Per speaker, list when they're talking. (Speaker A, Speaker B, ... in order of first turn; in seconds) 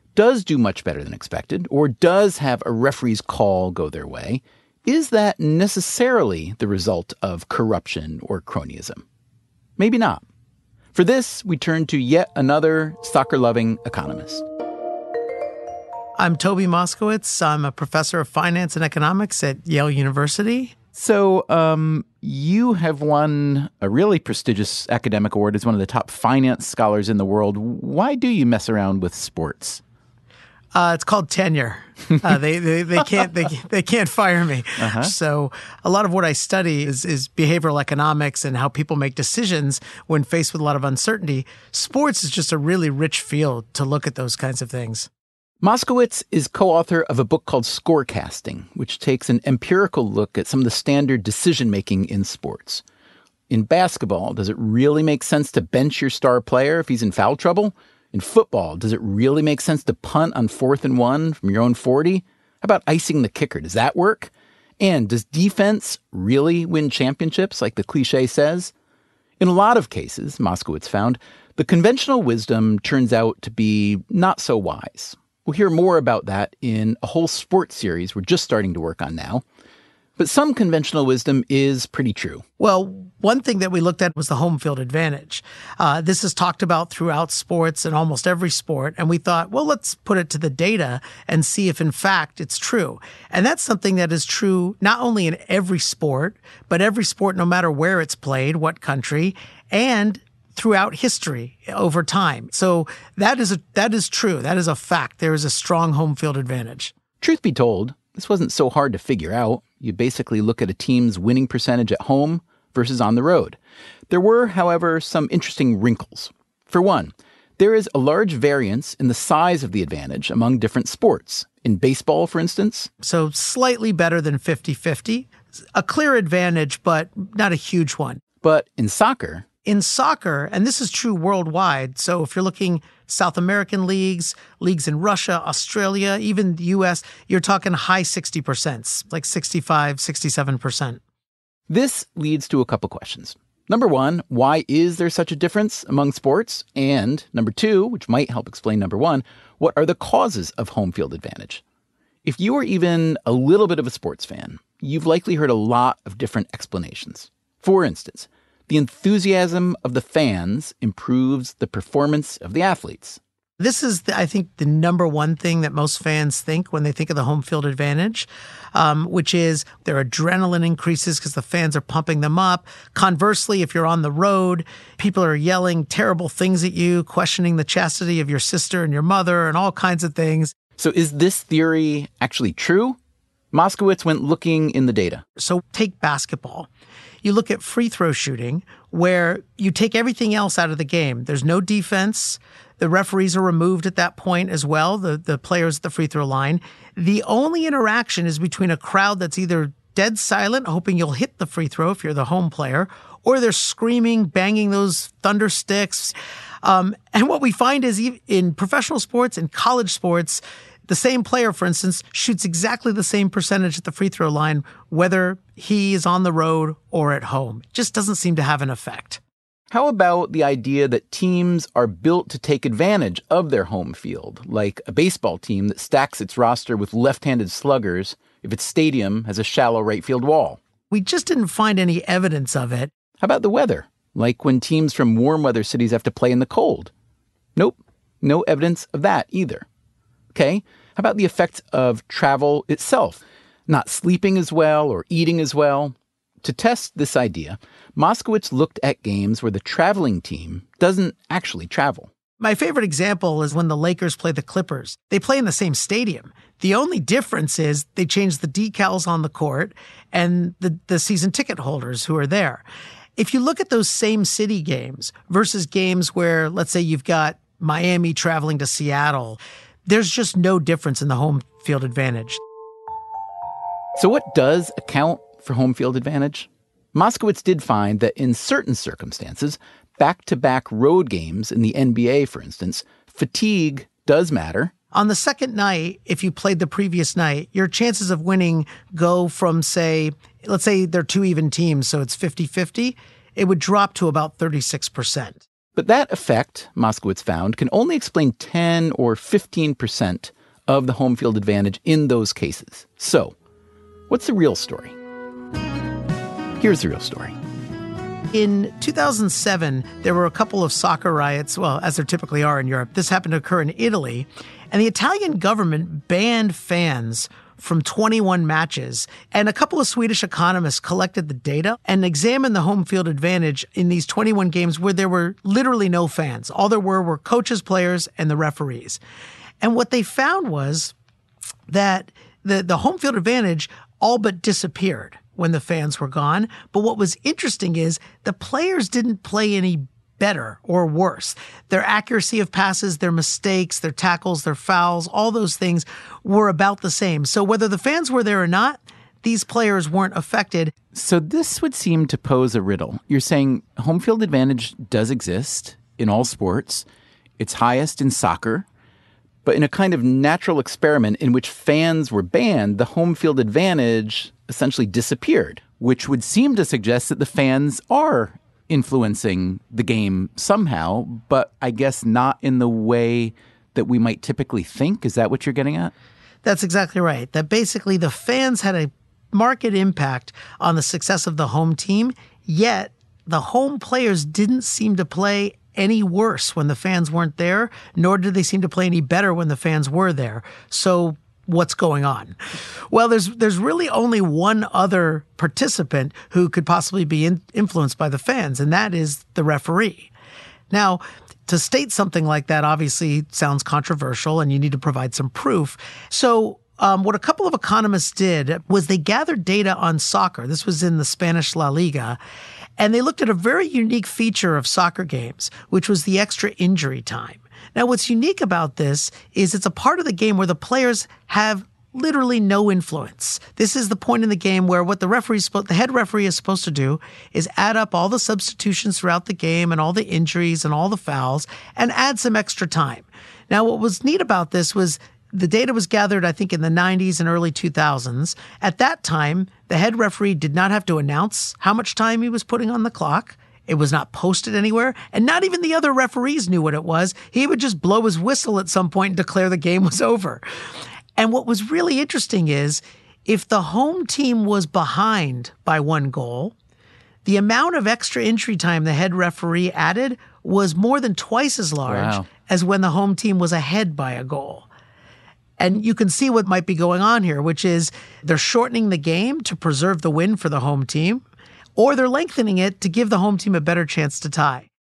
Speaker A: 0.1-9.0, 9.8-10.2, 10.9-14.4, 20.9-29.8, 34.8-35.1, 45.6-52.8, 53.5-68.7, 69.4-79.4, 80.2-82.4, 107.2-113.6, 114.1-122.9, 128.4-129.4, 141.7-151.6, 152.2-163.2, 180.8-183.0, 183.5-185.2, 219.7-230.6, 233.2-236.9, 237.6-239.6, 240.3-252.1, 274.0-284.7, 295.8-303.3, 304.1-304.9, 306.6-307.3, 350.9-356.8, 357.4-358.6, 359.4-375.9, 461.8-462.2
Speaker B: 16.2-20.7, 30.7-45.1, 82.6-106.9, 123.0-128.2, 129.7-141.0, 163.6-180.5, 185.4-186.7, 187.2-219.2, 230.9-232.9, 252.4-262.6, 263.2-272.4, 284.9-295.4, 308.3-329.0, 329.6-330.9, 331.7-350.7, 376.4-392.4, 392.9-400.1, 400.7-412.2, 412.8-450.4, 451.1-456.5, 457.2-464.7, 465.6-471.2, 471.8-474.7